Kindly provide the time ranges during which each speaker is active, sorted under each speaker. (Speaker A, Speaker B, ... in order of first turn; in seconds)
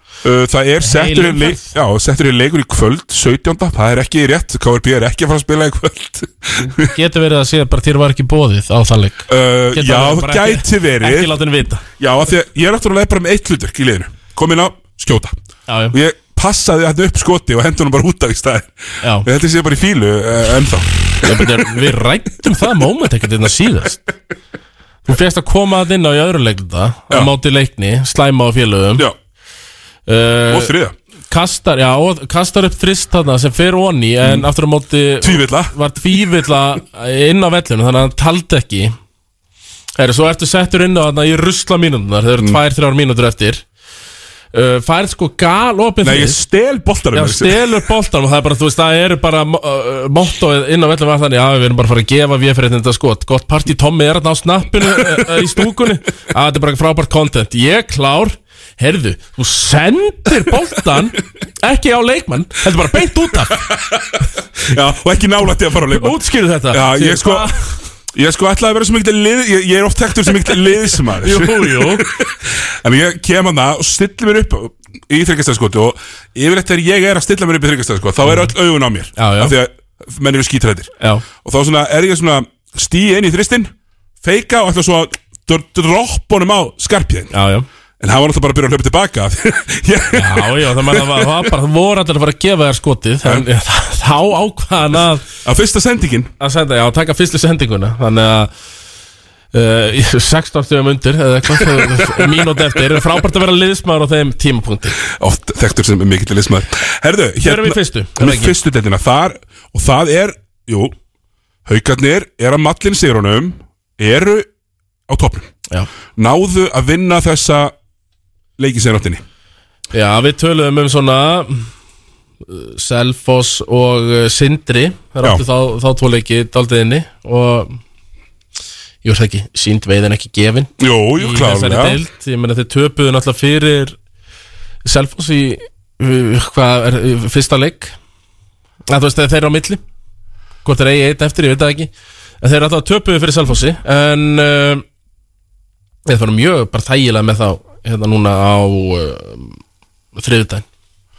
Speaker A: 0.2-6.9, 9.3-11.3, 12.0-15.3, 15.9-18.7, 19.2-21.3, 30.5-30.9, 35.2-35.8, 46.0-47.7, 64.7-66.2, 66.7-67.5, 68.1-83.7, 84.2-87.3, 88.0-91.5, 95.4-96.3, 105.1-110.9, 111.7-114.5, 115.1-115.5, 116.2-117.7, 118.6-119.2, 130.8-132.0
Speaker B: 0.8-1.7, 6.6-11.8, 15.7-15.9, 21.2-24.0, 25.1-29.1, 30.1-30.7, 31.3-38.9, 40.0-43.6, 44.5-46.4, 47.1-63.6, 65.9-67.5, 71.2-72.0, 78.2-78.5, 79.2-79.5, 81.0-81.2, 87.3-87.7, 90.1-95.2, 96.4-98.5, 99.5-105.0, 107.4-108.5, 119.9-121.7, 122.4-127.8, 129.0-133.9, 134.8-137.9, 138.9-139.8, 140.6-141.9, 142.4-144.8, 146.1-149.6, 150.1-150.6